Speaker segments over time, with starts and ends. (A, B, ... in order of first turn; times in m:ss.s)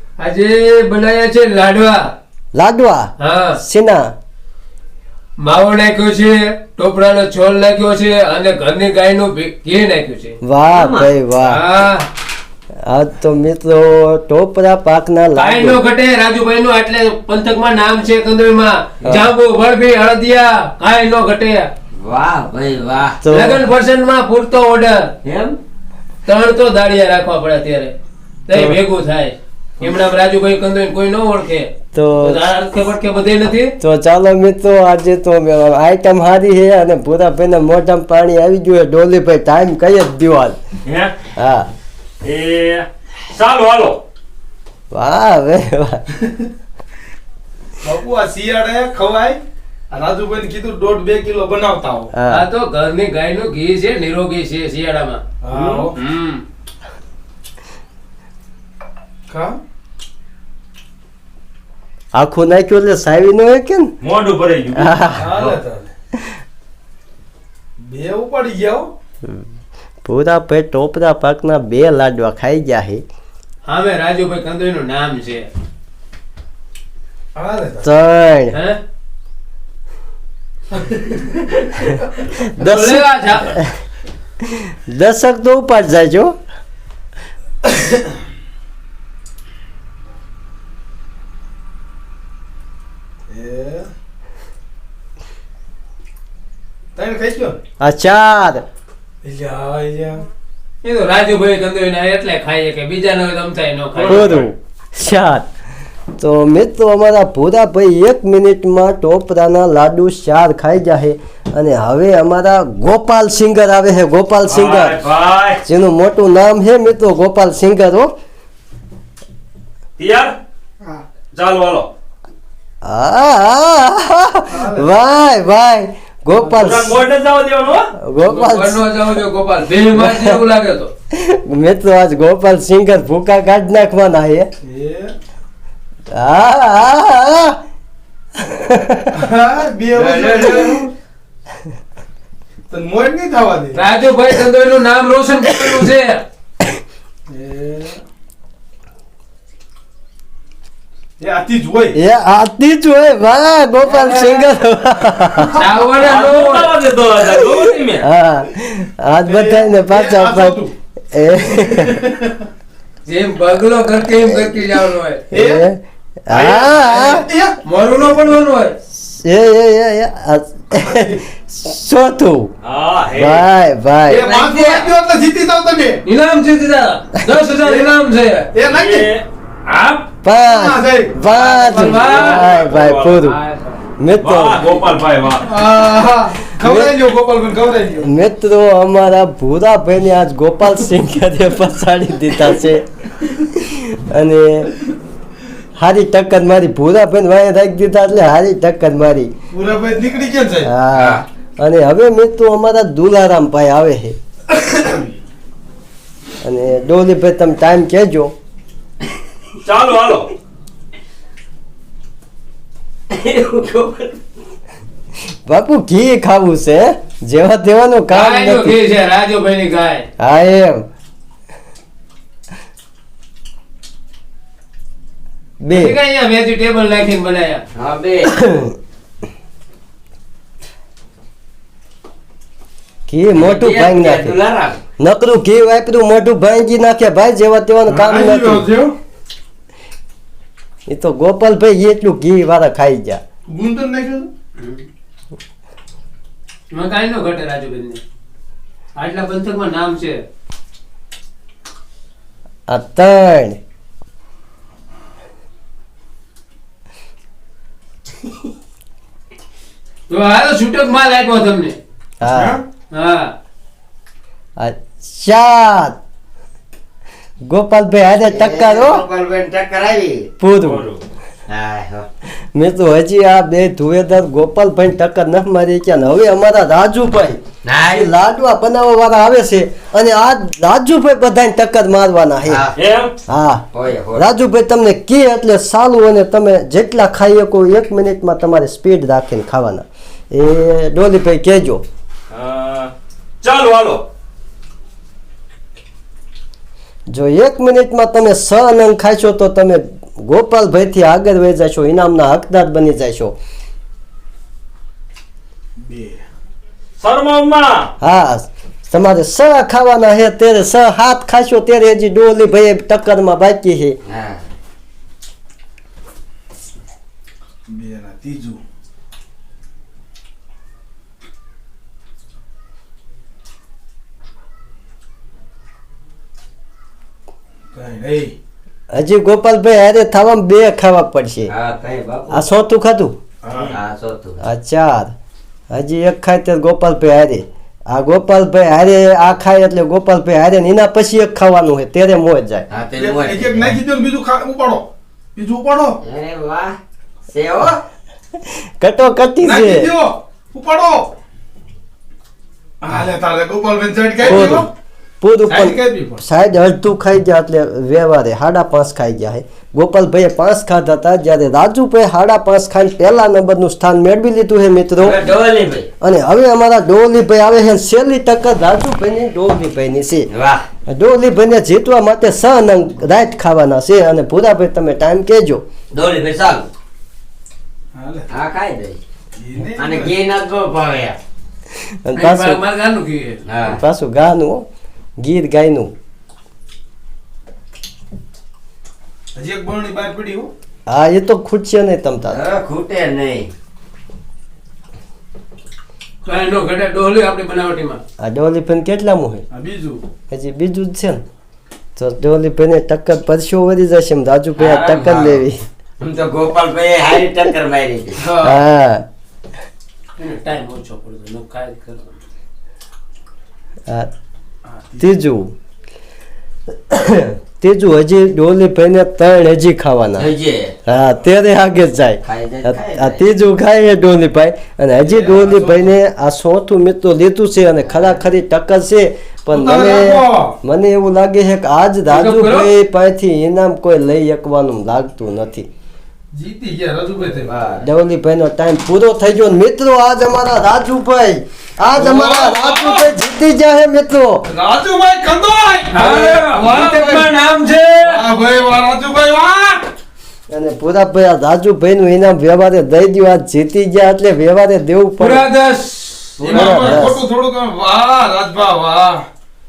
0:00.2-0:02.1 A
0:02.6-0:04.1 B
0:03.2-0:03.6 A
0:05.4-0:10.4 A
0:10.4-0:11.6 B
0:10.7-0:11.1 C
0:11.4-0:12.1 A
0:12.8-0:15.8 B
0:15.3-0:21.7 A
0:19.0-0:19.3 B
0:22.0-0:23.2 C
0:23.2-0:23.6 B
0:23.3-0:25.1 A
0:25.2-0:25.6 C
0:26.2-0:27.9 A
0:28.5-0:33.7 A
0:28.5-0:28.8 B
0:31.9-0:32.4 B
0:33.8-0:40.6 B
0:40.8-0:41.1 D
0:41.4-0:41.7 B
0:42.2-0:44.0 D
0:44.9-0:46.0 B
0:47.8-0:49.4 E
0:49.9-0:52.1 E
0:52.1-0:52.4 B
0:52.3-0:55.2 A
0:55.4-0:56.0 E
0:55.5-0:55.8 D
0:55.9-0:56.4 A
0:59.3-0:59.6 E
1:02.1-1:03.9 B
1:04.0-1:05.6 D
1:04.7-1:05.3 B
1:05.2-1:05.9 E
1:07.8-1:08.9 E
1:10.0-1:13.0 B
1:13.6-1:15.5 A
1:17.3-1:17.9 E
1:17.8-1:18.6 B
1:18.5-1:18.8 A
1:22.3-1:23.7 B
1:22.6-1:23.5 A
1:24.5-1:26.4 B
1:27.6-1:28.1 E
1:33.3-1:33.9 E
1:37.0-1:37.6 E
1:37.8-1:38.6 B
1:39.2-1:40.2 E
1:40.8-1:44.4 A
1:44.0-1:45.5 B
1:46.2-1:55.0 B
1:54.5-1:55.6 D
1:55.6-1:58.1 B
2:00.0-2:00.4 D
2:01.3-2:01.9 D
2:02.8-2:07.0 B
2:04.5-2:04.9 E
2:06.6-2:07.9 D
2:08.0-2:08.9 B
2:08.2-2:10.9 A
2:09.8-2:10.4 B
2:11.1-2:14.5 B
2:14.6-2:15.1 E
2:16.1-2:17.6 B
2:18.4-2:19.2 B
2:19.1-2:20.8 E
2:19.9-2:20.9 A
2:22.7-2:23.8 E
2:23.7-2:26.2 A
2:27.3-2:28.0 E
2:31.2-2:32.0 E
2:31.9-2:35.6 B
2:33.8-2:34.5 A
2:35.5-2:36.8 A
2:36.0-2:38.0 D
2:37.4-2:42.0 B
2:39.2-2:40.7 E
2:41.5-2:42.4 E
2:43.0-2:45.2 A
2:44.2-2:44.6 B
2:45.3-2:45.6 E
2:45.3-2:47.2 B
2:46.3-2:47.6 E
2:46.4-2:47.0 A
2:47.6-2:48.7 A
2:48.9-2:52.5 B
2:50.8-2:51.1 E
2:52.6-2:53.4 D
2:53.1-2:54.3 B
2:54.1-2:56.0 E
2:54.2-2:54.9 C
2:56.0-2:58.5 A
2:57.6-2:57.9 E
2:58.5-2:59.1 E
2:58.7-2:59.2 D
2:59.6-3:00.1 A
3:00.2-3:03.4 B
3:00.4-3:01.1 E
3:01.2-3:03.8 A
3:01.8-3:03.2 D
3:04.0-3:04.7 B
3:04.2-3:05.5 D
3:05.4-3:08.1 E
3:06.6-3:06.9 B
3:08.0-3:12.8 B
3:13.4-3:14.7 B
3:15.8-3:19.3 B
3:19.5-3:20.7 E
3:20.6-3:24.2 B
3:20.9-3:21.2 C
3:24.7-3:25.1 E
3:26.4-3:28.3 B
3:29.6-3:30.3 D
3:33.1-3:34.2 C
3:35.5-3:38.8 B
3:38.1-3:40.0 A
3:40.2-3:40.8 B
3:45.6-3:46.0 B
3:45.7-3:47.6 A
3:47.7-3:48.3 C
3:48.3-3:48.7 B
3:53.1-3:54.4 B
3:53.3-3:54.8 C
3:55.0-3:58.7 B
3:57.9-3:59.0 E
4:00.9-4:03.2 B
4:03.5-4:04.3 E
4:04.6-4:04.8 A
4:06.7-4:08.0 A
4:09.0-4:10.2 A
4:12.7-4:13.6 B
4:20.1-4:21.8 A
4:22.2-4:22.6 B
4:22.9-4:23.3 A
4:24.6-4:26.0 B
4:27.4-4:29.0 B
4:28.2-4:30.3 C
4:30.4-4:30.9 B
4:30.6-4:31.0 D
4:31.5-4:32.1 C
4:32.5-4:42.6 B
4:37.6-4:38.1 C
4:42.5-4:42.8 C
4:42.8-4:43.1 D
4:43.3-4:51.8 B
4:43.7-4:44.2 C
4:52.3-4:54.0 D
4:57.1-5:03.4 B
5:05.8-5:06.2 E
5:07.0-5:07.9 D
5:08.0-5:14.0 B
5:14.0-5:14.4 C
5:17.7-5:18.6 E
5:27.7-5:28.3 E
5:28.9-5:31.5 B
5:31.5-5:32.4 C
5:32.3-5:33.2 B
5:33.4-5:33.7 E
5:33.6-5:34.4 C
5:34.4-5:35.1 B
5:35.7-5:42.7 B
5:42.7-5:43.8 C
5:43.0-5:46.0 E
5:46.0-5:46.8 C
5:47.3-5:47.8 C
5:48.8-5:49.9 B
5:49.4-5:51.1 E
5:52.8-5:54.7 E
5:54.2-5:54.7 B
5:55.2-6:05.2 B
5:55.5-5:56.2 E
6:05.0-6:05.9 C
6:06.0-6:10.3 B
6:10.3-6:10.6 C
6:10.9-6:15.6 B
6:15.9-6:16.7 C
6:17.9-6:18.3 E
6:18.3-6:19.0 C
6:19.4-6:20.1 E
6:19.7-6:21.2 C
6:22.0-6:22.6 B
6:22.2-6:23.4 A
6:23.4-6:23.8 C
6:23.6-6:24.6 B
6:25.2-6:25.9 B
6:29.3-6:30.5 E
6:30.9-6:32.4 B
6:32.3-6:33.5 C
6:36.2-6:38.0 A
6:38.2-6:39.4 B
6:39.5-6:40.0 E
6:40.3-6:41.2 B
6:42.0-6:45.6 B
6:44.6-6:45.4 C
6:46.0-6:48.2 C
6:48.2-6:48.6 E
6:48.4-6:49.0 B
6:50.2-6:52.2 A
6:54.7-6:55.0 E
6:55.0-6:55.5 B
6:56.9-7:00.3 B
7:00.2-7:00.8 C
7:00.8-7:15.7 B
7:02.2-7:03.2 C
7:05.0-7:05.9 E
7:07.8-7:08.2 C
7:09.5-7:10.6 E
7:12.1-7:12.7 A
7:16.3-7:17.8 E
7:17.4-7:17.8 C
7:17.8-7:24.4 B
7:21.9-7:23.1 E
7:24.4-7:27.3 E
7:25.9-7:28.2 A
7:28.0-7:29.9 E
7:30.5-7:35.5 B
7:35.2-7:37.1 A
7:36.4-7:39.2 E
7:36.5-7:37.2 B